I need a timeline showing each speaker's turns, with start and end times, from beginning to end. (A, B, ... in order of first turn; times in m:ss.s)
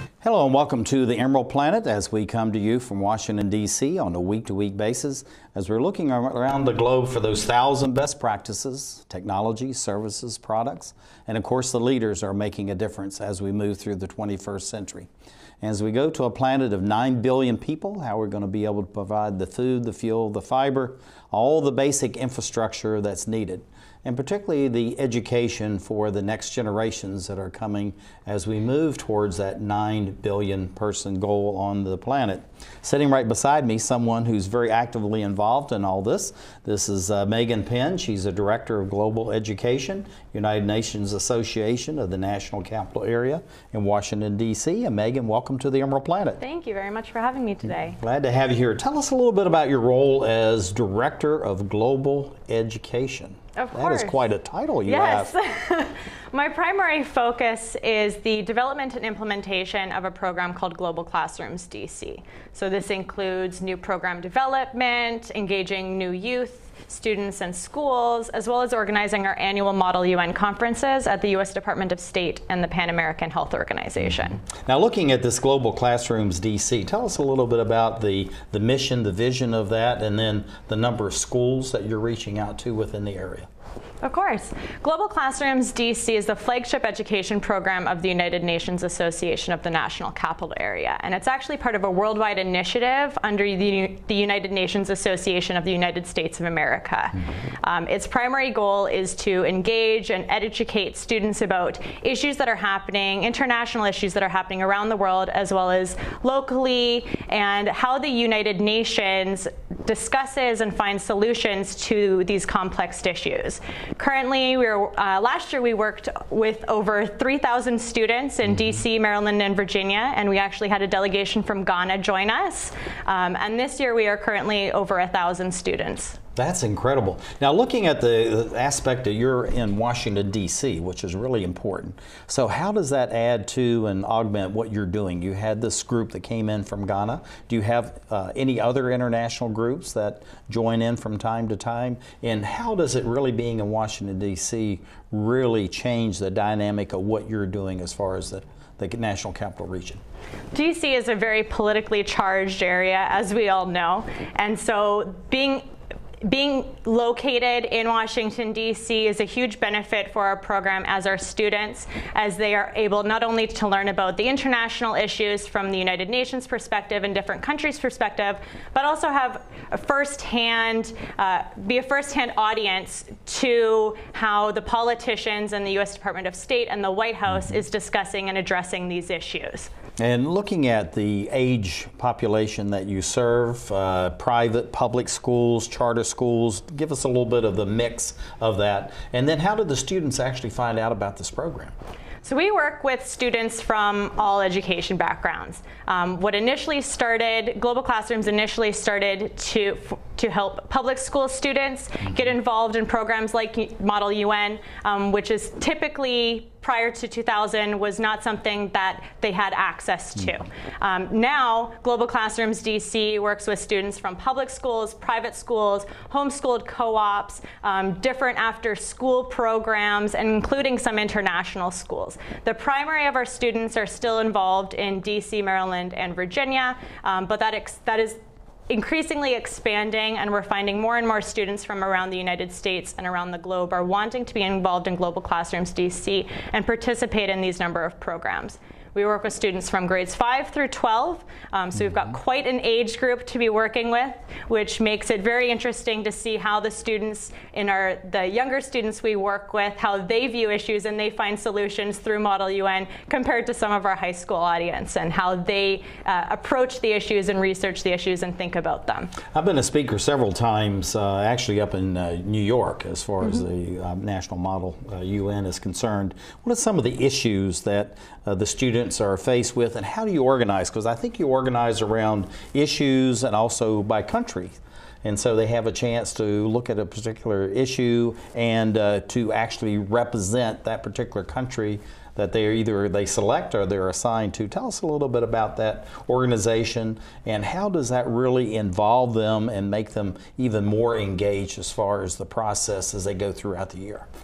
0:00.2-0:15.1 A
0:15.6-0:46.4 A
0:46.4-0:48.0 B
0:47.8-0:55.3 A
0:53.6-0:54.2 B
0:54.8-1:14.5 B
1:14.5-1:23.5 A
1:24.0-2:06.2 B
2:06.4-2:30.0 A
2:30.5-2:35.6 B
2:36.2-2:59.7 B
3:00.0-3:11.7 A
3:12.2-3:48.2 B
3:48.7-4:19.3 B
4:19.3-4:54.0 A